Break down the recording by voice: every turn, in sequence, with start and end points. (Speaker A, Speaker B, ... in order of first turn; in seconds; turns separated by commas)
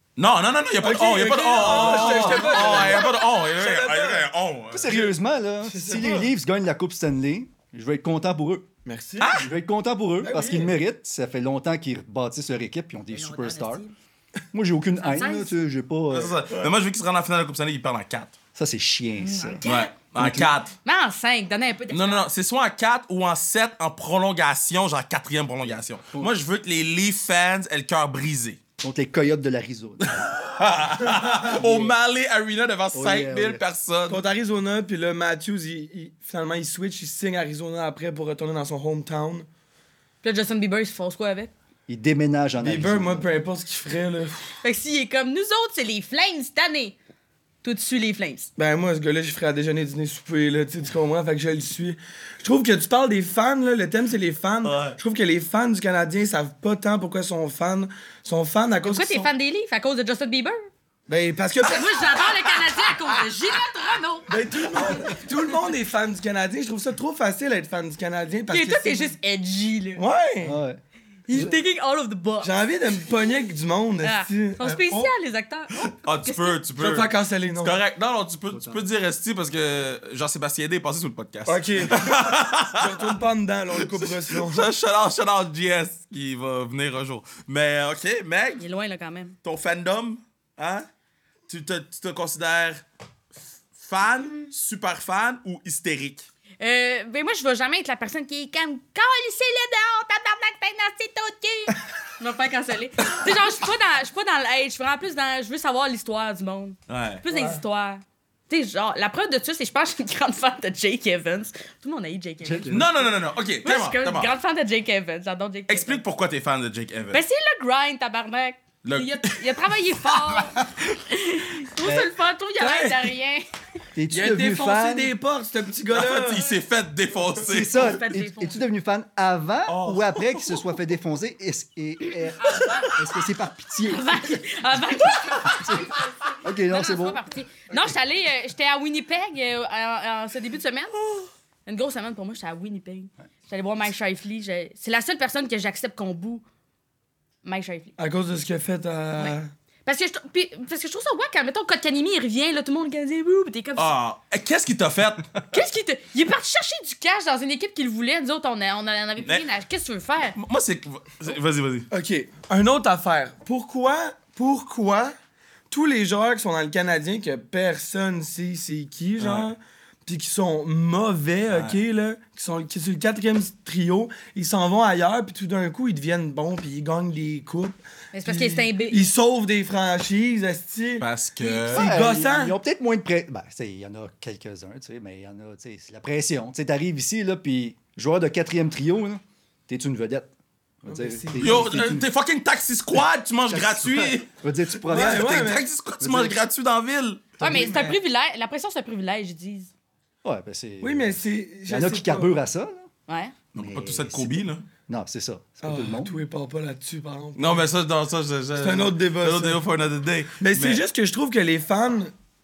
Speaker A: 0.2-5.1, Speaker B: 0.8-4.2, Speaker C: 1.6-3.0, Speaker C: 4.7-8.7, Speaker B: 5.7-6.3, Speaker B: 8.8-9.5, Speaker A: 9.2-9.5, Speaker C: 9.4-13.8, Speaker B: 10.2-10.8, Speaker D: 13.1-13.9, Speaker C: 14.5-16.4, Speaker D: 15.0-15.5, Speaker A: 16.1-18.4, Speaker C: 18.6-19.6, Speaker D: 19.2-19.9, Speaker A: 19.6-20.7, Speaker C: 20.2-20.5, Speaker D: 20.9-22.3, Speaker A: 21.9-28.6, Speaker C: 28.8-30.2, Speaker A: 30.0-34.2, Speaker C: 31.4-31.9, Speaker C: 32.9-33.6, Speaker B: 34.1-39.5, Speaker D: 40.2-41.5, Speaker C: 41.9-43.3, Speaker B: 42.6-44.5, Speaker D: 44.6-47.0, Speaker D: 47.6-48.5, Speaker B: 48.6-59.3, Speaker A: 54.6-55.0, Speaker D: 58.8-60.7, Speaker B: 61.1-62.4, Speaker D: 61.7-65.0, Speaker B: 64.3-69.1, Speaker D: 68.5-70.0, Speaker B: 70.0-70.6, Speaker C: 70.4-70.8, Speaker D: 71.3-72.5, Speaker B: 72.4-75.1, Speaker D: 74.0-76.6, Speaker A: 75.8-83.2, Speaker B: 76.8-77.8, Speaker C: 78.5-78.8, Speaker B: 81.5-84.7, Speaker A: 83.7-88.6, Speaker D: 88.6-89.4, Speaker A: 89.4-90.9, Speaker A: 91.5-92.8, Speaker A: 93.8-96.3, Speaker D: 96.6-112.8, Speaker A: 106.9-107.2, Speaker B: 107.3-107.6, Speaker C: 112.4-113.0, Speaker A: 112.7-114.3, Speaker D: 113.6-116.0, Speaker A: 115.7-117.2, Speaker D: 117.1-123.5, Speaker A: 118.8-119.6, Speaker C: 121.8-122.1, Speaker B: 122.6-123.1, Speaker C: 124.0-125.1, Speaker B: 124.1-126.4, Speaker A: 125.9-128.0, Speaker C: 127.4-134.4, Speaker D: 127.7-128.6, Speaker A: 129.7-130.7, Speaker D: 132.4-132.9, Speaker D: 133.9-136.0, Speaker C: 135.4-137.2, Speaker D: 136.7-141.0, Speaker D: 141.7-146.4, Speaker D: 147.4-147.9, Speaker B: 148.0-149.5, Speaker D: 149.2-153.9, Speaker A: 153.8-155.5, Speaker D: 155.5-160.4, Speaker A: 160.4-161.9, Speaker B: 161.9-165.1, Speaker B: 165.7-181.1, Speaker A: 169.2-169.5, Speaker A: 171.5-171.8, Speaker D: 178.1-179.1, Speaker A: 181.0-181.9, Speaker D: 181.4-181.7, Speaker B: 181.7-182.6, Speaker C: 181.7-190.3, Speaker C: 190.8-192.1, Speaker B: 190.9-192.0, Speaker A: 191.4-197.3, Speaker C: 193.5-195.5, Speaker B: 194.9-195.7, Speaker C: 196.0-196.4, Speaker D: 197.4-199.7, Speaker B: 197.4-198.0, Speaker C: 197.4-197.8, Speaker C: 200.2-202.9, Speaker B: 200.8-202.3, Speaker D: 203.1-203.3, Speaker A: 203.5-204.6, Speaker C: 203.6-206.2, Speaker B: 205.6-207.6, Speaker A: 207.4-210.8, Speaker B: 208.6-209.6, Speaker B: 210.4-212.1